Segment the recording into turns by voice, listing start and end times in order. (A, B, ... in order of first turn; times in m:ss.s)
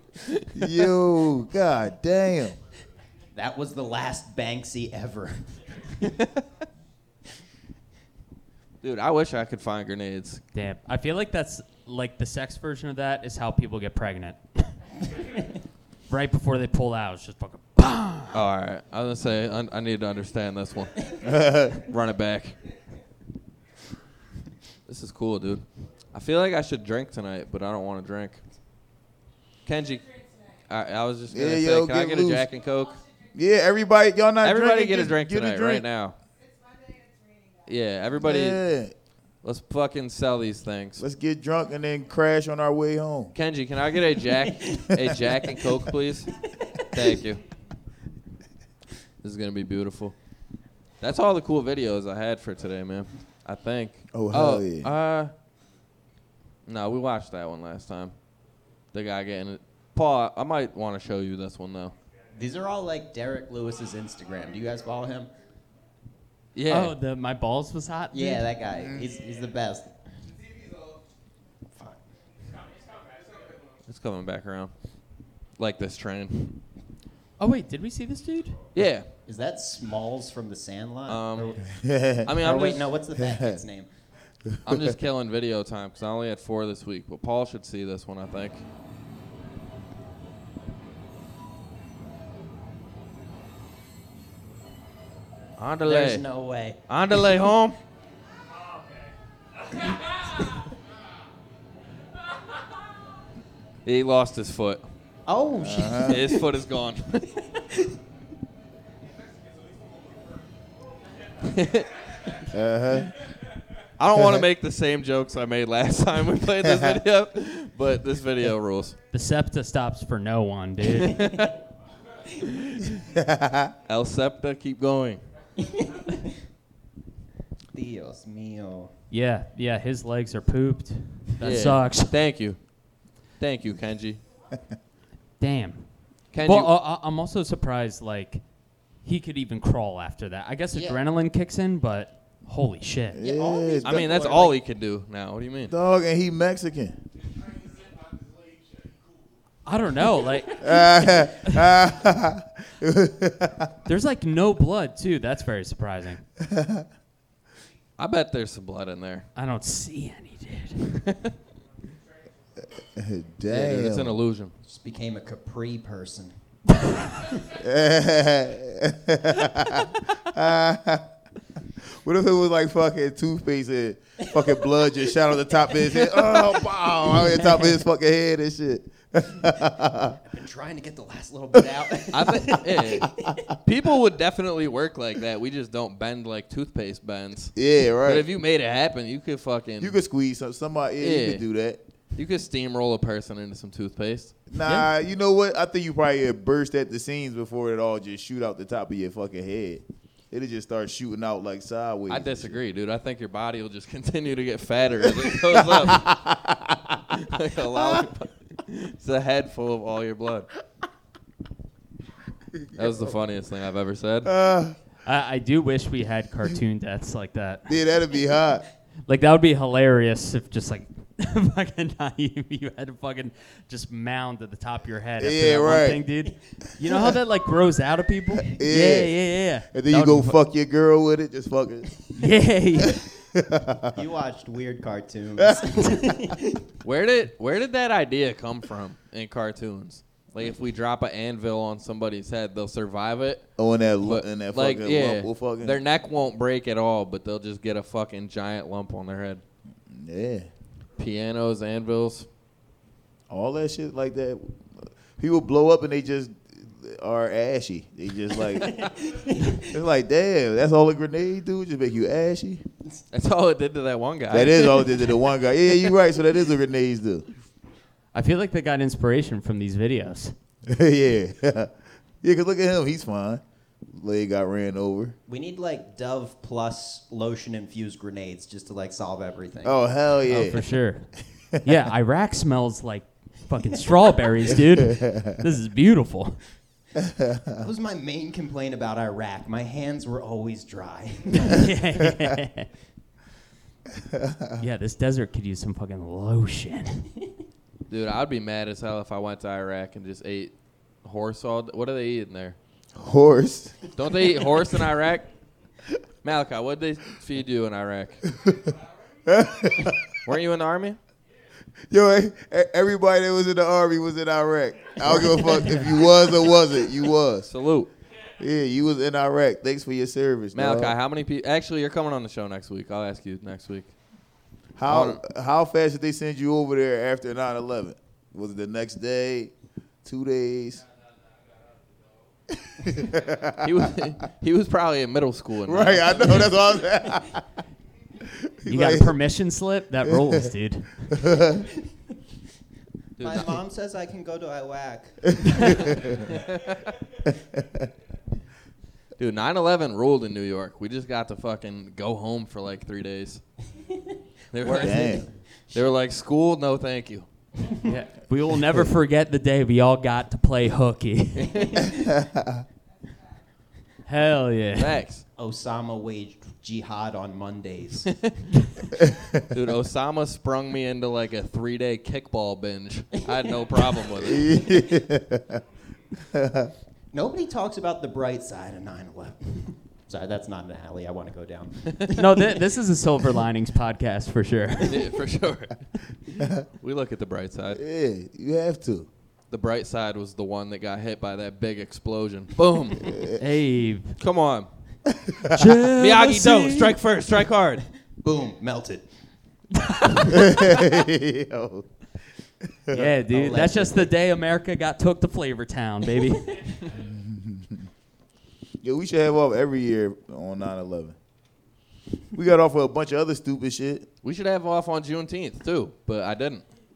0:00.5-0:02.6 A
0:03.3-0:05.4 B
0:08.8-0:10.4 C
0:10.5-0:14.7 D
0:16.1-0:18.4 D
0:18.3-0:22.6 C
0:21.2-0:21.8 A
0:24.9-0:28.4 C
0:29.6-0:33.0 C
0:31.3-0:32.5 A
0:33.3-0:35.8 A
0:34.4-0:36.2 C
0:37.6-0:38.6 C
0:38.2-0:38.9 A
0:39.4-0:41.0 C
0:41.0-0:43.3 A
0:43.3-0:47.4 C
0:44.5-0:44.9 B
0:46.7-0:47.0 B
0:49.2-0:50.1 C
0:51.0-0:55.3 C
0:54.1-0:54.9 A
0:56.6-0:58.1 C
0:58.9-1:01.9 C
1:02.3-1:05.3 B
1:06.5-1:06.9 C
1:06.7-1:08.5 D
1:08.1-1:10.0 B
1:11.7-1:12.0 B
1:13.9-1:14.7 C
1:15.6-1:16.6 C
1:17.4-1:18.6 D
1:18.7-1:19.1 C
1:19.3-1:21.7 B
1:21.1-1:21.6 C
1:21.7-1:22.3 A
1:22.2-1:22.9 C
1:22.3-1:23.9 B
1:23.2-1:23.6 A
1:24.5-1:24.9 A
1:24.6-1:28.6 C
1:35.6-1:36.2 C
1:35.8-1:37.4 B
1:36.9-1:37.8 C
1:43.8-1:44.8 C
1:45.3-1:46.4 B
1:45.6-1:46.3 A
1:46.0-1:47.4 C
1:47.5-1:47.9 B
1:51.4-1:51.9 C
1:52.5-1:53.1 A
1:54.0-1:59.0 C
1:54.1-1:54.4 A
1:56.6-1:57.0 A
1:59.1-2:01.3 D
2:01.0-2:01.5 C
2:02.4-2:03.0 C
2:03.0-2:03.7 A
2:03.9-2:05.2 C
2:05.6-2:06.2 B
2:07.7-2:08.9 B
2:09.1-2:12.1 D
2:11.4-2:12.6 C
2:13.4-2:14.2 C
2:15.4-2:18.4 D
2:16.3-2:16.7 C
2:19.0-2:23.2 D
2:20.7-2:21.0 B
2:23.1-2:24.1 A
2:23.2-2:24.6 B
2:23.8-2:25.7 C
2:25.7-2:27.0 A
2:29.6-2:31.7 D
2:30.6-2:33.7 A
2:33.8-2:36.2 D
2:36.4-2:36.9 A
2:38.0-2:39.3 C
2:39.4-2:41.0 D
2:41.0-2:41.3 C
2:42.7-2:44.2 A
2:43.5-2:44.5 C
2:44.6-2:46.3 B
2:47.5-2:51.1 A
2:51.7-3:00.2 A
2:56.1-2:56.5 B
3:00.2-3:03.4 B
3:02.1-3:10.0 C
3:07.6-3:08.3 A
3:09.8-3:11.8 A
3:11.0-3:11.4 C
3:12.2-3:14.9 C
3:14.5-3:22.6 A
3:22.1-3:26.2 C
3:25.2-3:27.2 A
3:27.1-3:30.5 C
3:27.7-3:28.1 A
3:32.6-3:33.1 A
3:32.7-3:34.3 C
3:34.2-3:34.8 A
3:35.0-3:37.8 D
3:37.7-3:38.6 A
3:39.1-3:50.4 D
3:45.2-3:46.1 A
3:48.5-3:52.0 A
3:52.2-3:53.1 D
3:52.8-3:54.0 A
3:53.9-3:56.6 B
3:55.4-3:56.0 A
3:56.8-4:03.5 C
4:03.6-4:05.8 A
4:04.0-4:09.4 C
4:09.9-4:10.5 A
4:11.0-4:12.3 C
4:13.3-4:18.9 A
4:18.5-4:19.7 B
4:19.5-4:22.6 A
4:23.1-4:25.0 C
4:24.3-4:27.2 A
4:28.1-4:30.3 D
4:30.6-4:35.2 A
4:35.3-4:39.8 B
4:39.6-4:40.7 A
4:40.2-4:41.1 D
4:41.6-4:46.4 D
4:44.5-4:45.4 A
4:47.0-4:47.6 A
4:47.6-4:51.6 B
4:51.5-4:52.7 D
4:54.0-4:54.6 A
4:54.6-4:57.1 D
4:57.9-5:02.6 C
5:02.9-5:03.8 A
5:03.9-5:05.3 C
5:06.2-5:08.2 C
5:08.3-5:08.7 A
5:09.2-5:10.2 A
5:10.2-5:11.0 C
5:11.9-5:17.5 A
5:17.5-5:17.9 C
5:18.4-5:21.0 A
5:20.5-5:23.9 C
5:24.8-5:29.5 A
5:24.9-5:25.2 C
5:30.0-5:30.8 A
5:32.7-5:33.9 A
5:33.6-5:36.6 C
5:35.6-5:37.5 A
5:38.2-5:39.2 A
5:38.7-5:41.2 D
5:40.0-5:40.5 A
5:41.1-5:41.7 A
5:43.2-5:43.6 C
5:43.2-5:46.4 B
5:45.5-5:46.2 A
5:46.3-5:46.9 C
5:47.2-5:47.9 A
5:49.2-5:53.4 C
5:54.5-5:57.2 C
5:54.6-5:55.9 B
5:54.7-5:55.3 A
5:57.8-6:01.8 D
6:01.4-6:01.8 C
6:01.9-6:02.6 A
6:04.0-6:04.9 D
6:04.8-6:05.2 C
6:05.4-6:08.1 B
6:08.1-6:08.3 C
6:09.0-6:09.4 A
6:09.5-6:14.6 C
6:14.2-6:15.6 A
6:16.2-6:16.7 A
6:17.1-6:22.6 B
6:22.1-6:25.1 D
6:24.8-6:27.8 C
6:26.4-6:26.6 A
6:27.7-6:29.1 A
6:29.5-6:33.3 C
6:33.0-6:33.4 A
6:33.4-6:34.2 D
6:34.2-6:34.7 C
6:35.1-6:35.8 A
6:35.5-6:36.9 D
6:36.0-6:37.8 C
6:38.2-6:39.1 B
6:39.8-6:40.3 D
6:40.3-6:41.8 A
6:42.8-6:43.2 A
6:42.9-6:46.7 D
6:43.3-6:44.1 B
6:46.9-6:47.9 A
6:48.8-6:51.2 A
6:52.3-6:54.1 A
6:54.2-6:56.6 C